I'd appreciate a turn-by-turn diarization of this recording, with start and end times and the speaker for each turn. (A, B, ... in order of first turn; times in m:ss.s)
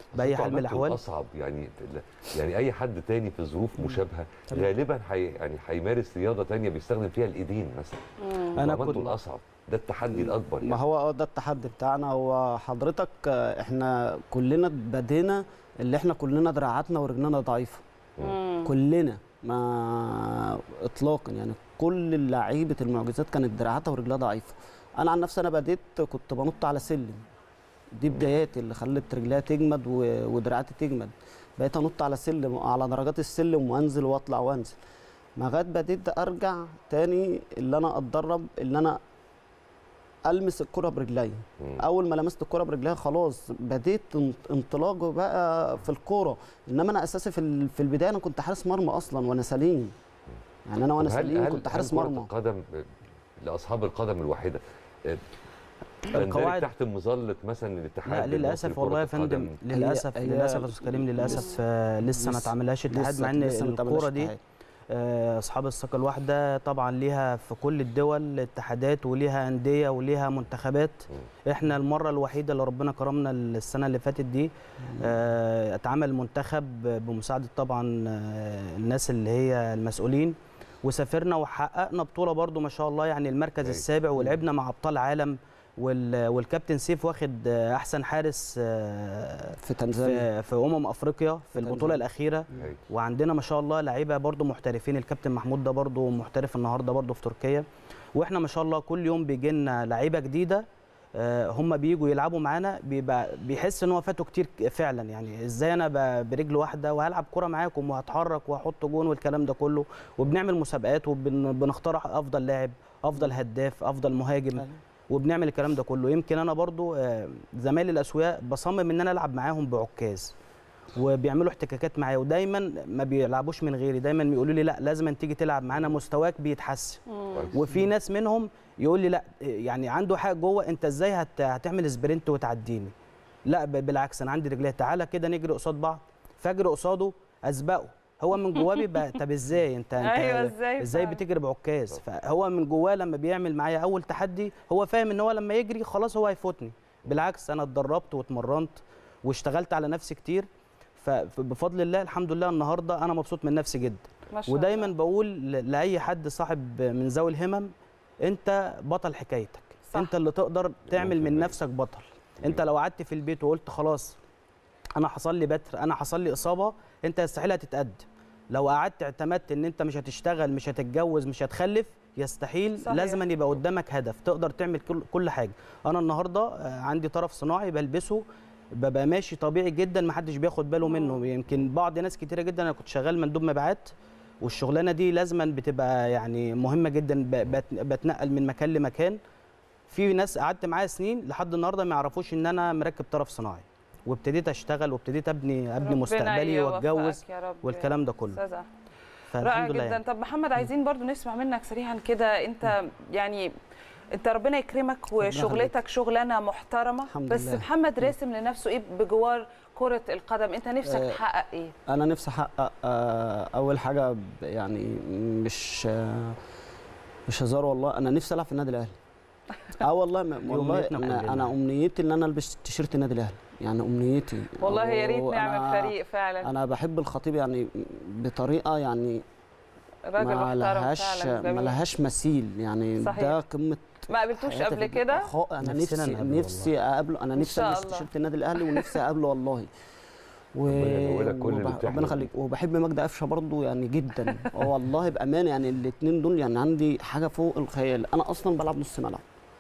0:00.1-0:10.8 A
0:00.2-0:01.0 B
0:08.2-0:08.5 C
0:08.5-0:09.2 B
0:10.1-0:17.8 D
0:18.2-0:18.7 C
0:18.6-0:27.2 D
0:27.9-0:34.8 D
0:35.4-0:39.0 D
0:40.3-0:49.9 D
0:50.7-0:52.3 D
0:51.0-0:52.9 A
0:53.4-0:55.2 A
0:56.1-0:59.6 A
0:56.1-0:56.7 B
0:58.1-1:04.4 B
0:59.7-1:01.6 D
1:02.2-1:04.4 D
1:04.9-2:00.3 B
1:23.6-1:23.9 A
1:29.6-1:30.3 D
1:31.6-1:32.0 D
1:32.5-1:32.8 A
2:01.0-2:12.9 B
2:13.5-2:37.7 B
2:18.6-2:19.0 C
2:20.0-2:21.2 C
2:34.3-2:34.9 C
2:38.2-2:44.2 B
2:40.9-2:41.6 A
2:45.0-2:58.2 B
2:52.8-2:53.2 C
2:58.8-3:09.2 B
3:00.8-3:01.2 C
3:09.9-3:18.4 B
3:15.8-3:18.7 C
3:19.3-3:20.0 B
3:19.4-3:23.5 C
3:24.2-3:31.7 C
3:25.2-3:25.8 D
3:27.1-3:28.1 D
3:30.8-3:31.2 D
3:31.9-3:36.4 D
3:37.3-3:39.0 D
3:39.8-3:49.2 D
3:40.5-3:41.6 B
3:44.6-3:46.5 C
3:50.1-3:51.8 C
3:50.2-3:59.7 D
3:53.0-3:53.4 C
3:54.1-3:55.3 C
3:55.6-3:56.7 B
3:57.4-3:58.1 C
3:58.6-3:58.9 C
4:00.6-4:09.2 D
4:00.7-4:02.3 A